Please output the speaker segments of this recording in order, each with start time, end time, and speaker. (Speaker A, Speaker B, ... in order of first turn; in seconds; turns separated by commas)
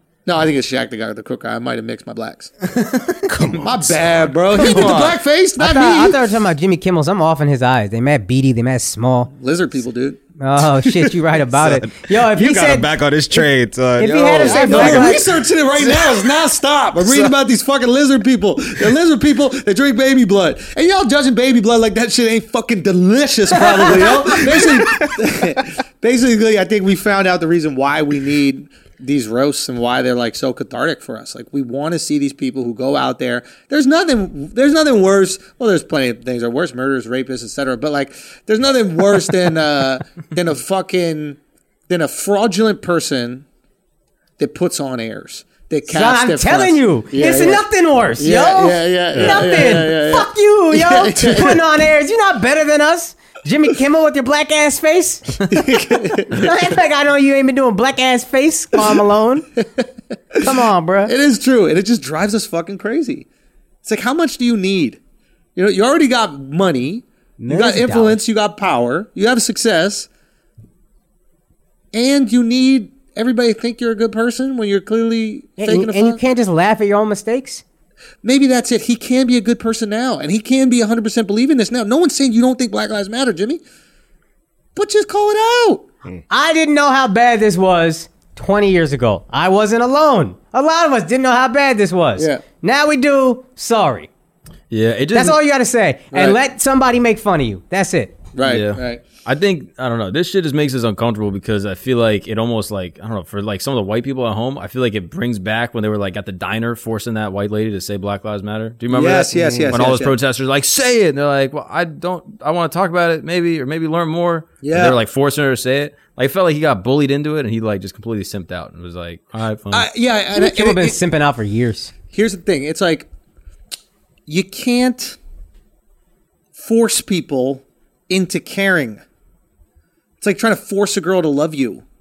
Speaker A: 0.2-2.5, Speaker B: 2.8-3.3, Speaker C: 3.3-4.3, Speaker A: 3.6-6.2, Speaker D: 4.5-5.0, Speaker B: 4.7-5.2, Speaker D: 5.6-9.3, Speaker A: 9.3-10.2, Speaker D: 10.4-12.9, Speaker C: 11.5-15.2, Speaker B: 14.0-15.1, Speaker D: 14.0-15.3, Speaker A: 14.4-41.4, Speaker C: 15.8-16.2, Speaker C: 17.0-17.4, Speaker C: 23.6-25.2, Speaker A: 41.9-43.4, Speaker A: 44.4-47.6, Speaker D: 45.9-55.6, Speaker A: 48.2-51.6, Speaker C: 49.1-49.6, Speaker A: 55.5-56.5, Speaker D: 56.2-59.6, Speaker D: 60.4-61.1, Speaker A: 61.0-63.3, Speaker A: 63.8-65.0, Speaker A: 65.5-70.1, Speaker D: 67.4-68.2, Speaker A: 71.9-76.2, Speaker D: 75.6-77.6, Speaker A: 78.2-83.6, Speaker A: 84.7-85.8, Speaker D: 86.3-94.1, Speaker B: 94.7-95.4, Speaker D: 95.1-98.2, Speaker A: 96.1-96.4, Speaker A: 98.3-99.0, Speaker B: 98.5-119.9, Speaker A: 108.9-110.1, Speaker C: 109.3-109.8, Speaker A: 114.6-115.0, Speaker A: 119.7-121.0, Speaker D: 120.3-121.9, Speaker A: 122.1-123.1, Speaker A: 124.3-125.2, Speaker A: 126.5-129.0, Speaker A: 130.2-131.8